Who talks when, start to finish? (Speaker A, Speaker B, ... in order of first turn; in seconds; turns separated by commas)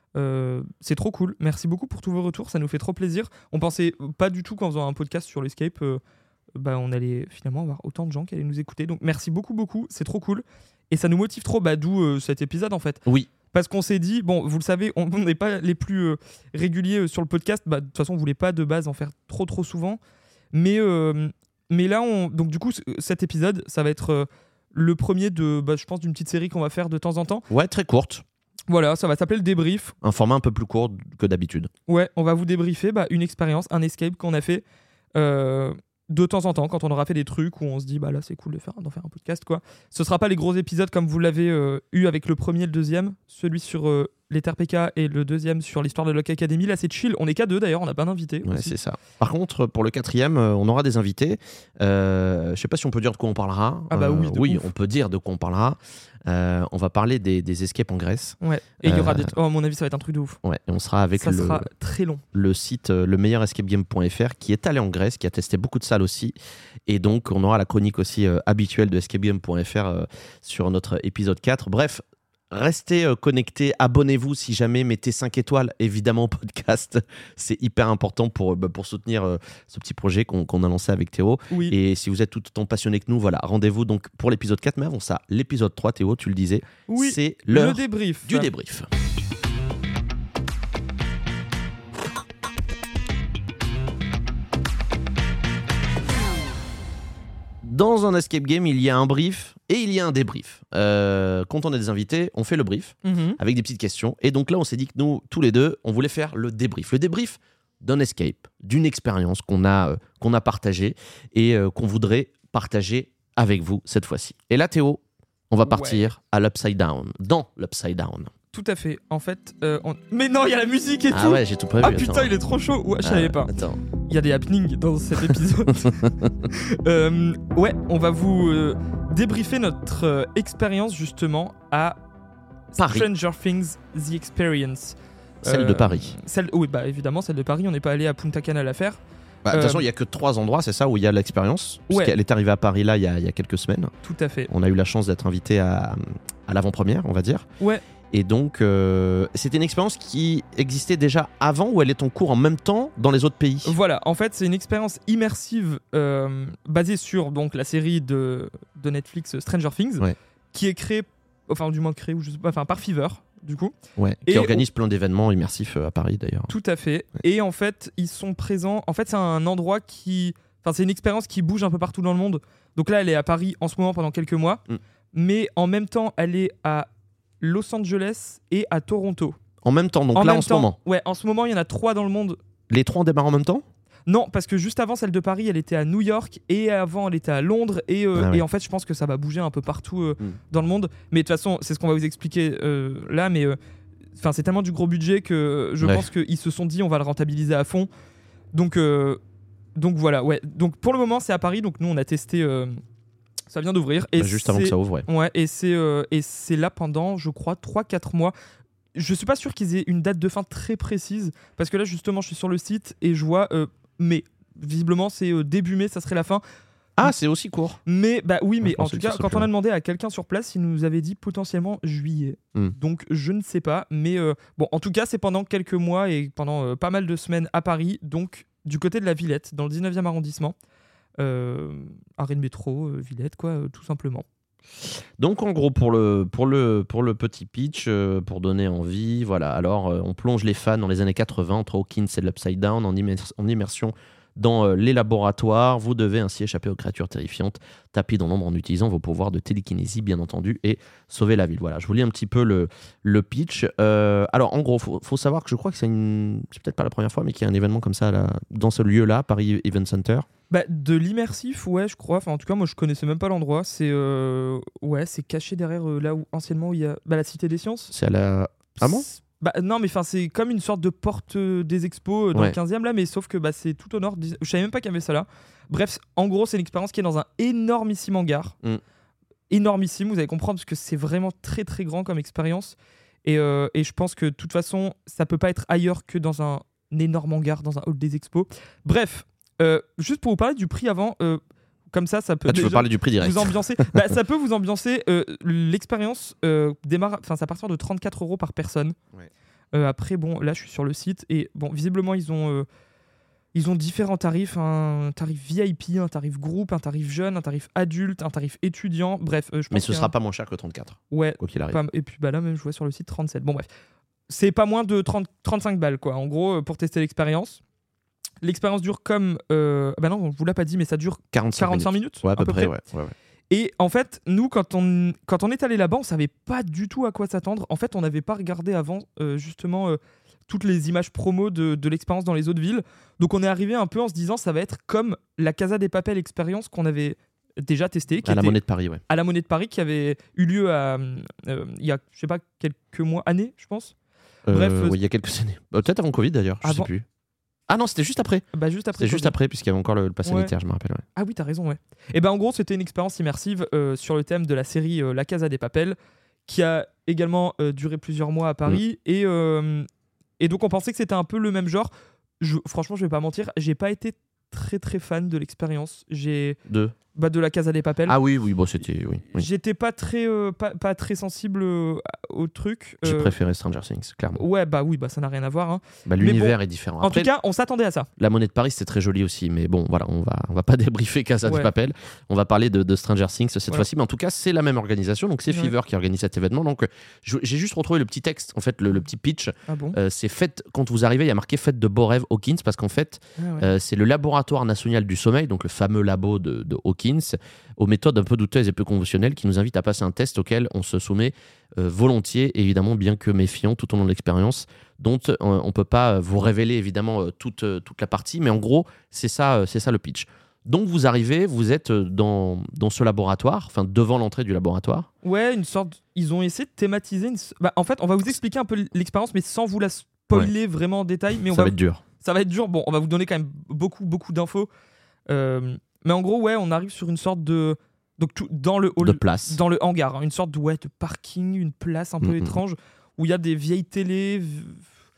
Speaker A: 0.1-6.0, Speaker A: 6.6-20.0, Speaker A: 20.5-27.4, Speaker B: 27.5-28.2, Speaker A: 28.7-30.0, Speaker B: 30.0-31.7, Speaker A: 31.9-34.6, Speaker A: 35.1-48.8, Speaker B: 48.5-59.3, Speaker A: 53.9-54.7, Speaker A: 58.4-60.4, Speaker B: 60.4-61.7, Speaker A: 61.2-62.2, Speaker B: 62.3-66.3, Speaker B: 66.9-88.9, Speaker A: 86.9-88.5, Speaker B: 97.6-118.3, Speaker A: 103.0-103.4, Speaker A: 115.7-116.1, Speaker A: 118.5-132.0, Speaker B: 121.1-122.3, Speaker B: 123.0-123.8, Speaker B: 125.3-126.5, Speaker A: 132.8-139.8, Speaker B: 132.8-133.1, Speaker B: 135.4-136.1, Speaker B: 139.4-143.9, Speaker A: 144.0-144.5, Speaker B: 144.5-147.5, Speaker B: 148.1-153.7, Speaker A: 153.7-164.6, Speaker B: 164.0-166.5, Speaker A: 166.5-176.9, Speaker A: 177.4-179.4, Speaker B: 179.6-180.8, Speaker A: 180.2-182.4, Speaker B: 182.7-183.7, Speaker A: 184.1-193.6, Speaker B: 188.2-188.4, Speaker A: 194.2-197.9, Speaker B: 195.8-196.1, Speaker A: 198.5-199.2, Speaker A: 199.8-202.8, Speaker A: 203.5-208.3, Speaker B: 204.2-205.1, Speaker A: 208.9-216.4, Speaker B: 217.0-217.8, Speaker A: 217.9-230.6, Speaker B: 218.6-219.5, Speaker A: 231.2-234.3, Speaker B: 235.2-260.3, Speaker A: 260.5-267.9, Speaker B: 267.9-269.1, Speaker A: 268.8-278.6, Speaker A: 279.5-299.0, Speaker B: 292.5-294.1, Speaker A: 299.7-302.7, Speaker A: 303.5-310.1, Speaker B: 309.7-311.8, Speaker A: 311.1-313.7, Speaker A: 314.3-317.6, Speaker A: 318.4-322.7, Speaker B: 321.3-323.1, Speaker A: 323.5-343.9, Speaker B: 338.2-339.0, Speaker B: 344.5-347.1, Speaker A: 344.5-345.0, Speaker A: 346.6-346.9, Speaker B: 347.7-351.1, Speaker A: 348.5-349.4, Speaker A: 350.2-350.5, Speaker A: 351.2-359.9, Speaker A: 360.4-366.6, Speaker B: 366.7-366.9, Speaker A: 367.1-368.2, Speaker B: 368.1-369.5, Speaker A: 369.3-373.3, Speaker B: 373.0-374.4, Speaker A: 374.4-378.1, Speaker B: 376.1-377.3, Speaker B: 378.2-415.1, Speaker A: 381.4-381.7, Speaker A: 385.5-385.7, Speaker A: 389.7-390.0, Speaker A: 393.4-393.7, Speaker A: 415.2-424.7, Speaker B: 421.5-422.0, Speaker A: 425.3-434.9, Speaker B: 429.0-429.6, Speaker B: 432.2-432.6